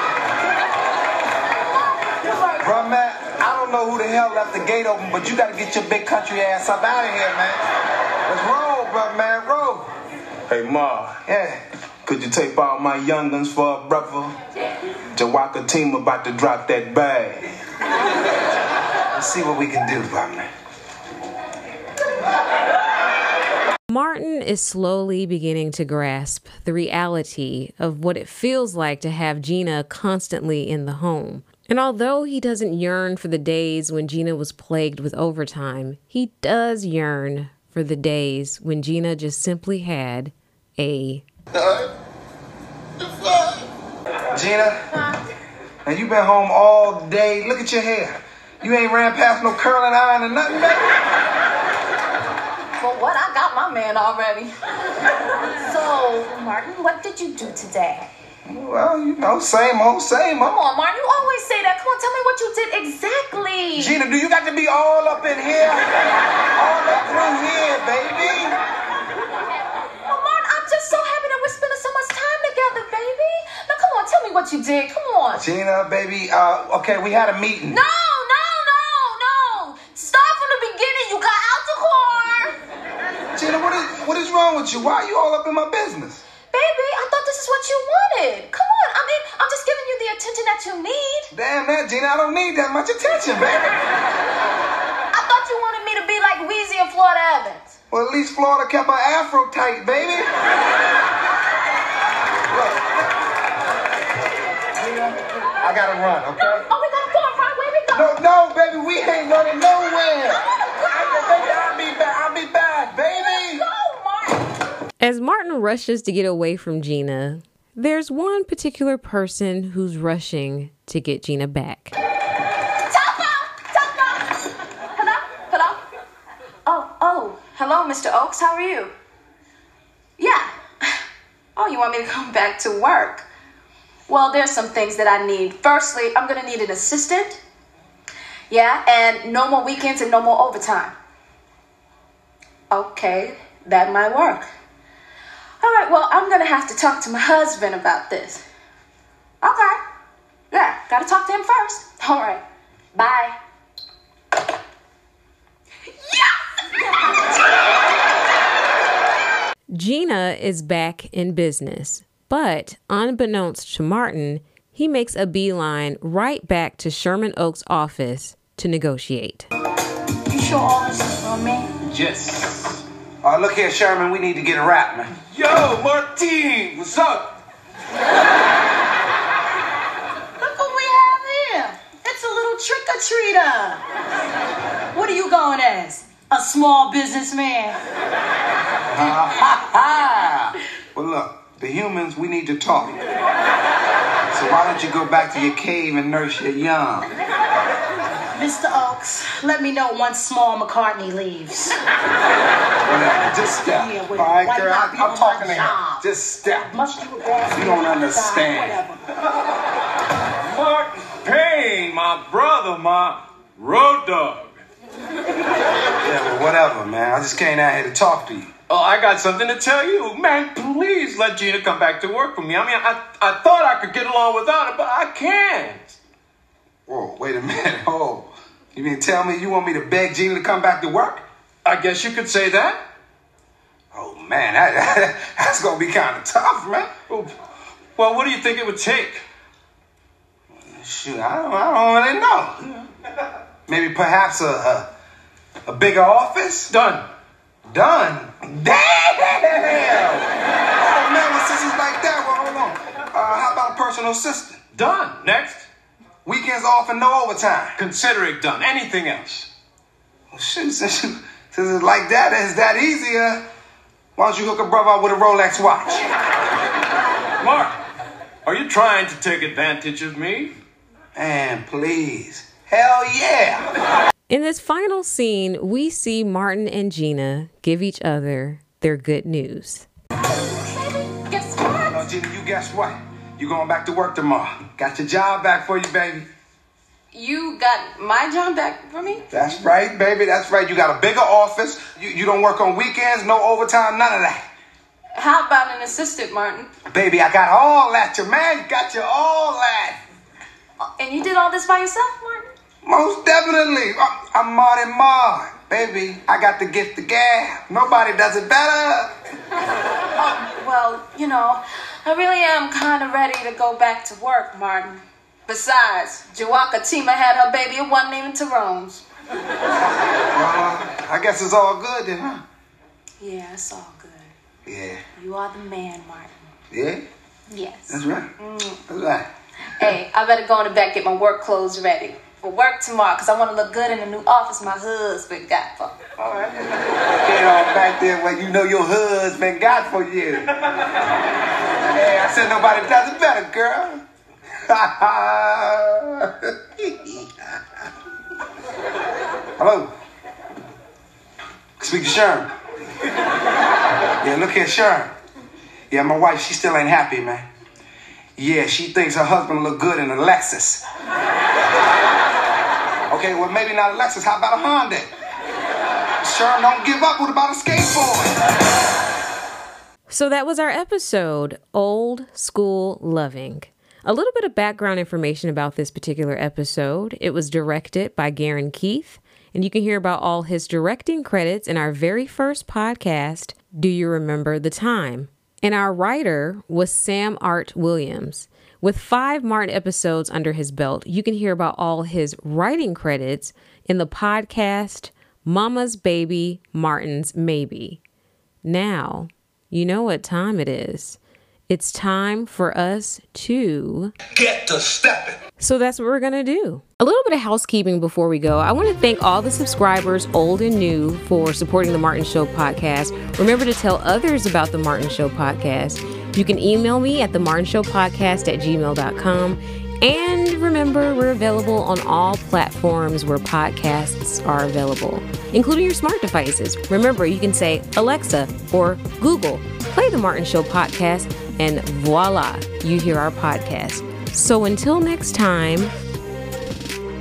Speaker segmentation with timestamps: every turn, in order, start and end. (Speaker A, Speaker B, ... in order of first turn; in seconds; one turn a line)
Speaker A: 2.0-2.8
Speaker B: 2.6-7.6
Speaker B: 8.3-9.9
Speaker C: 10.5-11.2
Speaker B: 11.3-11.6
Speaker C: 12.1-14.3
Speaker C: 15.1-17.5
Speaker B: 19.1-20.5
Speaker D: 23.9-41.2
Speaker B: 44.3-44.8
Speaker B: 45.9-50.9
Speaker A: 52.8-54.5
Speaker A: 55.5-58.1
Speaker B: 58.5-60.6
Speaker A: 60.4-64.0
Speaker B: 63.8-65.8
Speaker B: 66.5-68.6
Speaker A: 70.1-75.4
Speaker B: 75.3-77.8
Speaker A: 77.7-82.6
Speaker B: 83.4-86.2
Speaker A: 86.5-91.3
Speaker B: 91.3-93.8
Speaker A: 95.1-97.7
Speaker B: 97.9-100.3
Speaker B: 102.5-102.9
Speaker B: 104.8-106.7
Speaker A: 106.4-108.2
Speaker B: 107.9-113.7
Speaker A: 110.6-111.4
Speaker A: 113.1-114.5
Speaker D: 115.0-121.9
Speaker A: 122.9-125.8
Speaker A: 126.7-128.9
Speaker A: 130.2-131.0
Speaker A: 131.6-133.2
Speaker A: 134.1-137.4
Speaker A: 138.5-140.9
Speaker A: 142.7-144.5
Speaker A: 145.6-148.4
Speaker A: 149.4-149.8
Speaker A: 150.5-152.4
Speaker A: 152.9-153.3
Speaker A: 156.0-156.3
Speaker D: 159.7-169.5
Speaker A: 170.3-171.7
Speaker E: 171.8-172.8
Speaker B: 173.2-175.1
Speaker E: 175.1-177.3
Speaker F: 180.4-183.8
Speaker F: 184.9-187.8
Speaker B: 188.9-193.0
Speaker B: 194.3-197.1
Speaker F: 198.3-201.8
Speaker B: 202.8-206.7
Speaker F: 202.9-206.1
Speaker F: 206.7-209.0
Speaker B: 207.5-208.8
Speaker E: 210.4-214.6
Speaker B: 216.0-218.5
Speaker E: 218.7-226.0
Speaker B: 226.9-231.2
Speaker E: 231.6-232.8
Speaker B: 233.9-236.9
Speaker E: 238.0-239.2
Speaker B: 240.7-242.7
Speaker B: 243.7-244.9
Speaker B: 245.7-246.7
Speaker E: 246.7-247.1
Speaker B: 247.7-254.6
Speaker E: 254.7-255.7
Speaker B: 256.2-257.8
Speaker E: 257.8-259.5
Speaker B: 260.3-263.4
Speaker B: 264.2-266.1
Speaker E: 267.4-267.8
Speaker E: 268.4-270.6
Speaker B: 271.1-273.7
Speaker D: 274.3-279.9
Speaker A: 280.3-282.1
Speaker B: 281.9-286.3
Speaker A: 287.1-289.3
Speaker B: 289.3-294.4
Speaker A: 295.1-296.7
Speaker B: 296.9-300.0
Speaker A: 300.9-302.5
Speaker B: 302.8-309.1
Speaker A: 310.2-319.0
Speaker B: 320.3-322.4
Speaker A: 323.2-324.3
Speaker B: 324.7-325.0
Speaker A: 325.2-326.5
Speaker B: 326.7-327.0
Speaker A: 327.5-328.8
Speaker B: 327.9-328.3
Speaker B: 328.9-329.3
Speaker A: 329.8-336.5
Speaker B: 337.2-340.5
Speaker B: 341.9-344.0
Speaker B: 344.6-347.3
Speaker B: 349.6-349.9
Speaker B: 351.8-352.5
Speaker B: 354.2-355.1
Speaker B: 355.9-357.5
Speaker B: 358.4-360.8
Speaker B: 363.1-365.1
Speaker B: 366.2-368.4
Speaker D: 370.1-398.0
Speaker D: 398.6-401.2
Speaker D: 401.7-404.1
Speaker E: 404.3-405.4
Speaker D: 405.6-435.9